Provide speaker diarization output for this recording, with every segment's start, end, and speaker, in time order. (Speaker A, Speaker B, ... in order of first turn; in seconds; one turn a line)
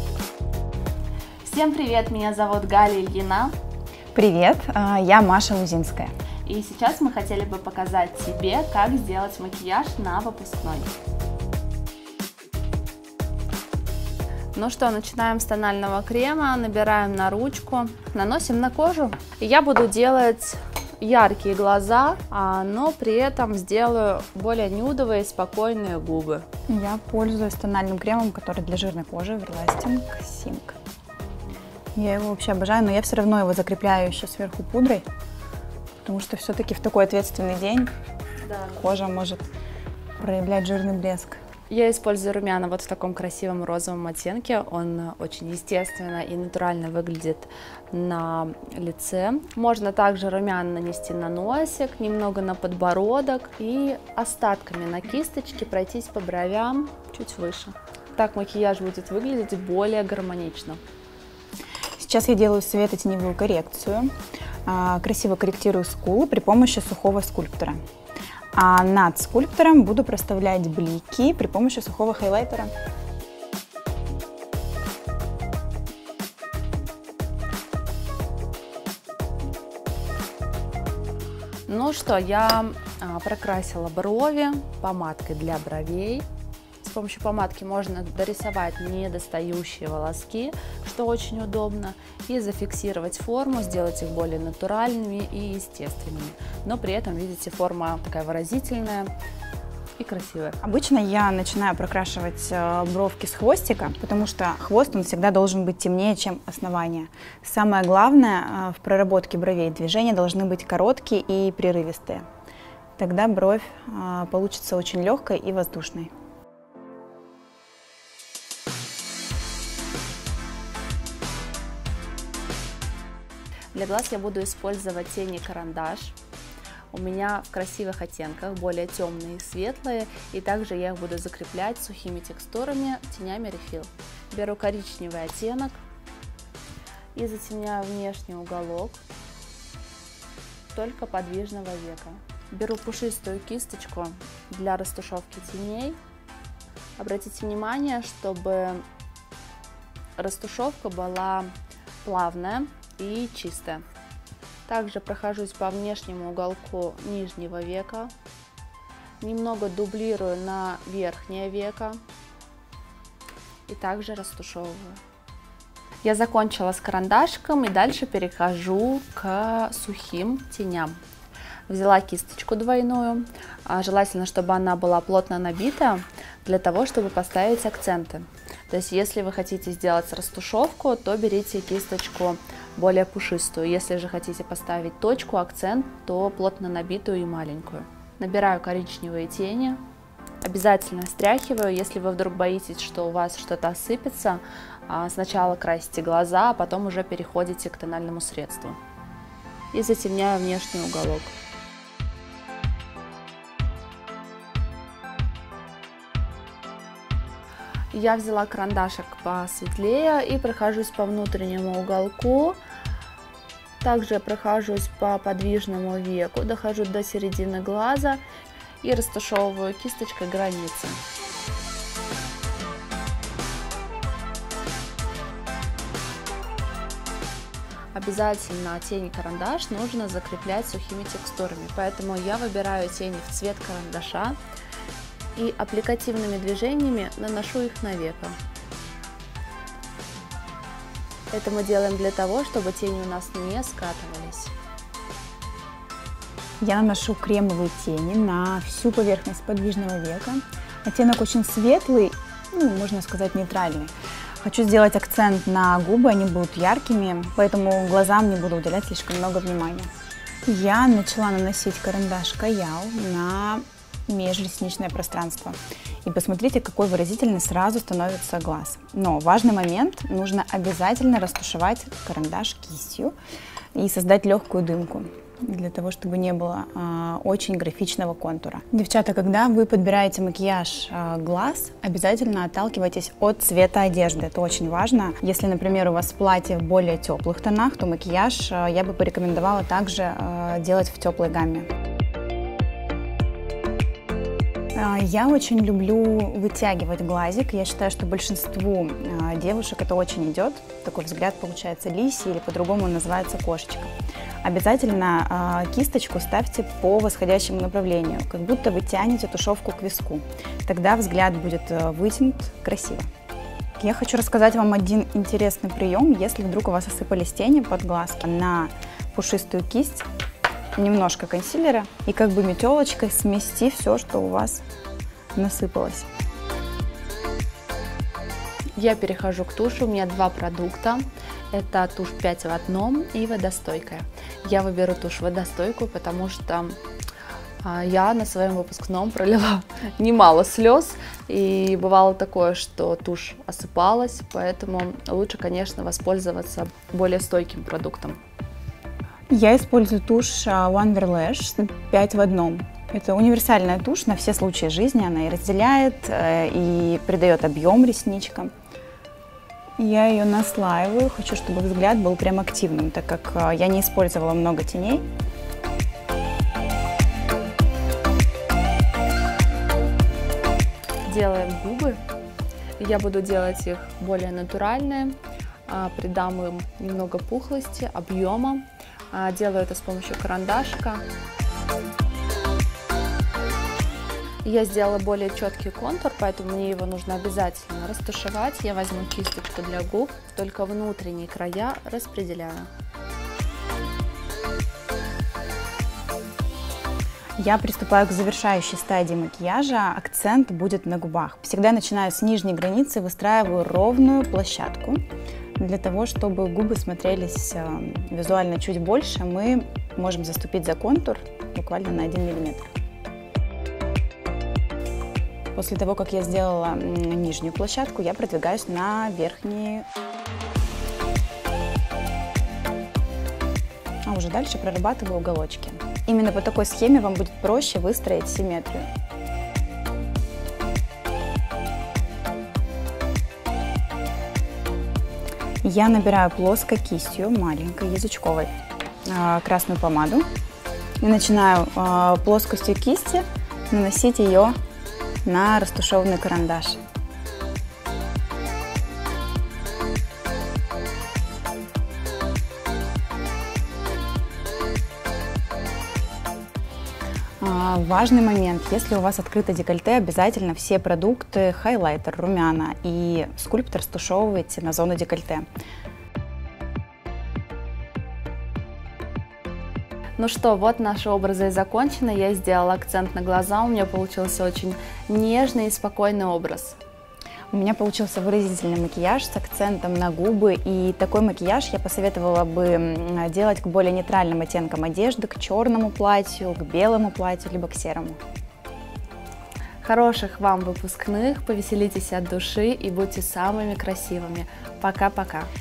Speaker A: 1.4-3.5
Speaker B: 4.1-6.1
Speaker A: 6.5-10.9
Speaker A: 14.5-26.5
Speaker B: 26.7-30.8
Speaker A: 31.3-31.6
Speaker B: 31.9-35.1
Speaker B: 36.0-37.9
Speaker A: 38.5-38.8
Speaker B: 38.7-39.5
Speaker B: 40.2-41.4
Speaker A: 41.7-60.8
Speaker B: 62.0-64.1
Speaker B: 64.7-67.8
Speaker B: 68.5-72.7
Speaker A: 81.7-86.3
Speaker A: 86.8-99.1
Speaker A: 100.0-100.6
Speaker B: 100.6-112.2
Speaker B: 113.0-116.1
Speaker A: 123.7-126.2
Speaker A: 126.9-135.8
Speaker A: 137.1-139.0
Speaker A: 140.7-146.0
Speaker A: 147.0-148.8
Speaker A: 150.2-151.5
Speaker A: 152.0-153.8
Speaker A: 154.7-158.1
Speaker A: 159.2-162.0
Speaker A: 163.7-165.0
Speaker A: 166.0-171.0
Speaker A: 171.7-189.8
Speaker A: 190.4-198.8
Speaker A: 199.7-201.3
Speaker A: 207.9-212.6
Speaker A: 213.8-218.2
Speaker A: 218.8-221.0
Speaker A: 227.9-234.4
Speaker A: 235.3-238.4
Speaker A: 241.3-244.5
Speaker B: 246.6-259.9
Speaker B: 260.5-273.1
Speaker B: 273.7-291.7
Speaker B: 294.8-303.9
Speaker B: 304.4-313.1
Speaker B: 313.8-320.1
Speaker B: 320.8-324.6
Speaker B: 325.3-326.1
Speaker A: 328.8-336.8
Speaker A: 337.6-348.2
Speaker B: 349.3-358.5
Speaker B: 359.8-365.1
Speaker A: 371.1-372.0
Speaker A: 372.8-381.0
Speaker A: 384.4-392.7
Speaker B: 397.4-405.0
Speaker B: 405.6-412.7
Speaker B: 415.6-419.9
Speaker B: 424.1-428.9
Speaker B: 435.6-438.5
Speaker B: 439.1-440.3
Speaker B: 441.0-444.6
Speaker B: 445.2-446.8
Speaker B: 457.4-465.5
Speaker A: 470.2-476.8
Speaker B: 477.5-488.2
Speaker A: 489.8-495.5